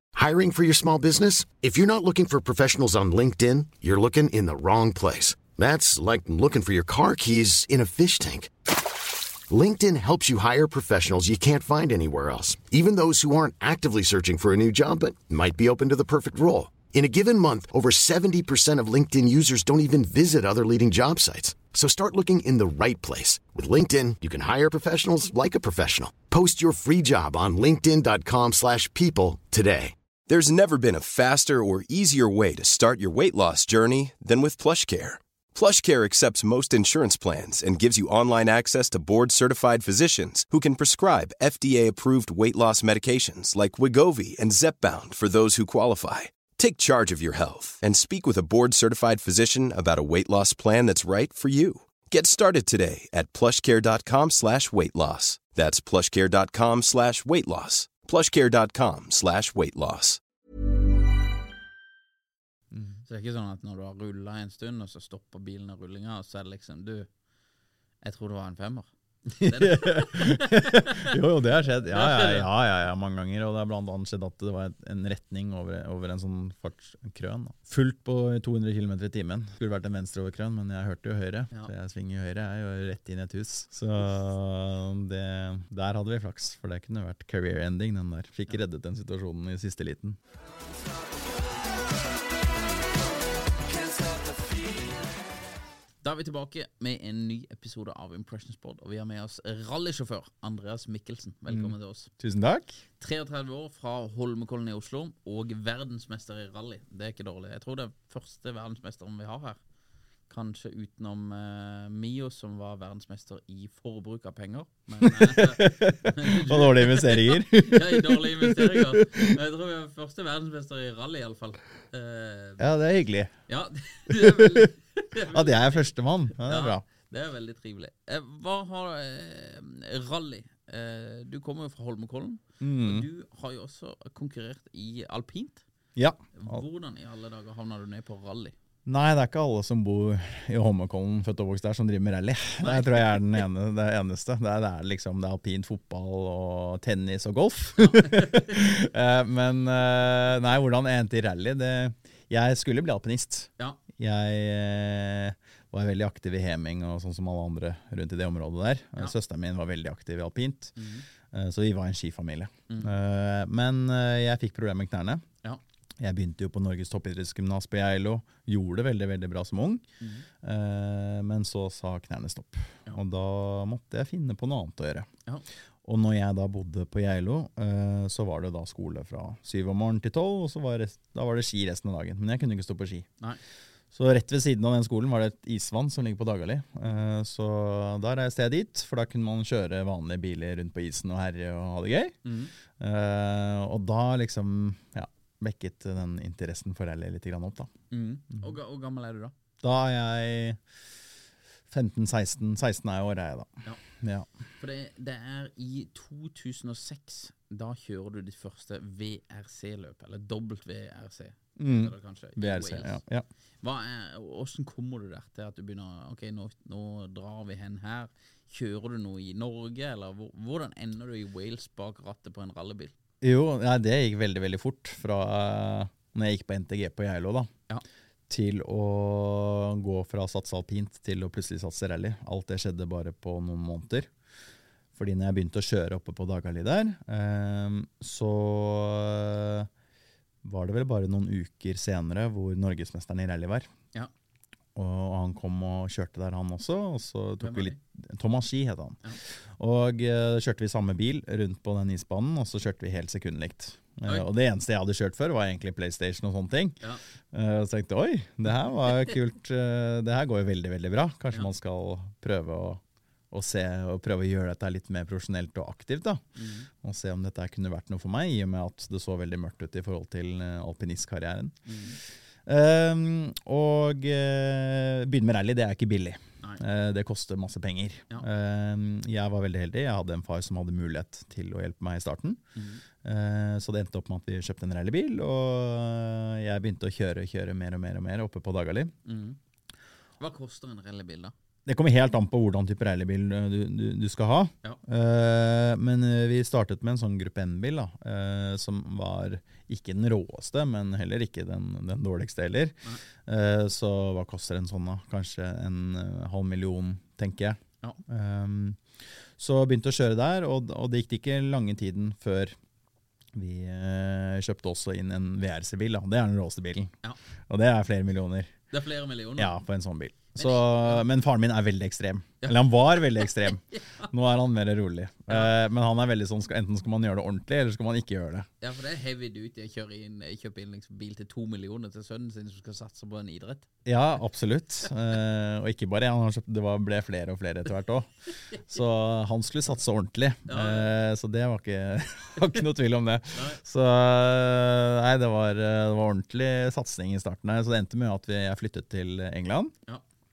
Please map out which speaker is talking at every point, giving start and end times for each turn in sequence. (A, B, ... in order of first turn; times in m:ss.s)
0:00.2-0:08.7 A
0:09.5-0:29.9 A
0:30.3-1:00.2 B
1:02.7-1:03.0 C
1:03.1-1:07.1 D
1:08.0-1:08.9 D
1:09.4-1:30.2 C
1:09.4-1:11.2 D
1:11.9-1:12.5 D
1:36.0-1:42.1 D
1:41.5-1:42.8 C
1:43.0-1:49.6 D
1:50.3-2:02.7 D
1:55.0-1:59.3 C
2:02.6-2:03.3 C
2:03.5-2:15.6 D
2:04.1-2:06.9 C
2:12.6-2:13.1 C
2:16.0-2:16.6 C
2:16.4-2:18.6 D
2:18.9-2:40.8 C
2:22.6-2:23.4 D
2:27.9-2:28.5 D
2:40.8-2:41.1 D
2:41.3-2:45.3 C
2:46.0-2:49.8 C
2:50.0-2:50.3 D
2:50.4-2:55.1 C
2:55.8-3:03.1 C
3:03.9-3:12.2 C
3:12.2-3:12.5 D
3:12.8-3:17.7 C
3:17.9-3:19.3 D
3:19.6-3:20.6 C
3:21.7-3:24.3 C
3:24.6-3:33.0 D
3:31.6-3:33.3 C
3:33.6-3:42.9 D
3:43.2-3:47.5 C
3:48.3-3:54.1 C
3:55.0-3:59.7 C
4:00.4-4:03.7 C
4:04.8-4:16.8 C
4:07.4-4:07.8 D
4:17.3-4:26.2 C
4:26.4-4:26.7 D
4:26.8-4:31.6 C
4:31.7-4:32.0 D
4:32.5-4:42.4 C
4:42.6-4:42.8 D
4:43.0-4:48.9 C
4:49.0-4:49.4 D
4:50.2-4:51.3 D
4:51.7-5:08.8 C
5:09.4-5:12.6 C
5:13.3-5:16.9 C
5:17.5-5:18.5 C
5:18.7-5:19.6 D
5:19.4-5:28.5 C
5:20.4-5:21.1 D
5:22.4-5:24.1 D
5:28.6-5:33.7 D
5:33.8-5:49.7 C
5:40.5-5:40.9 D
5:43.3-5:43.6 D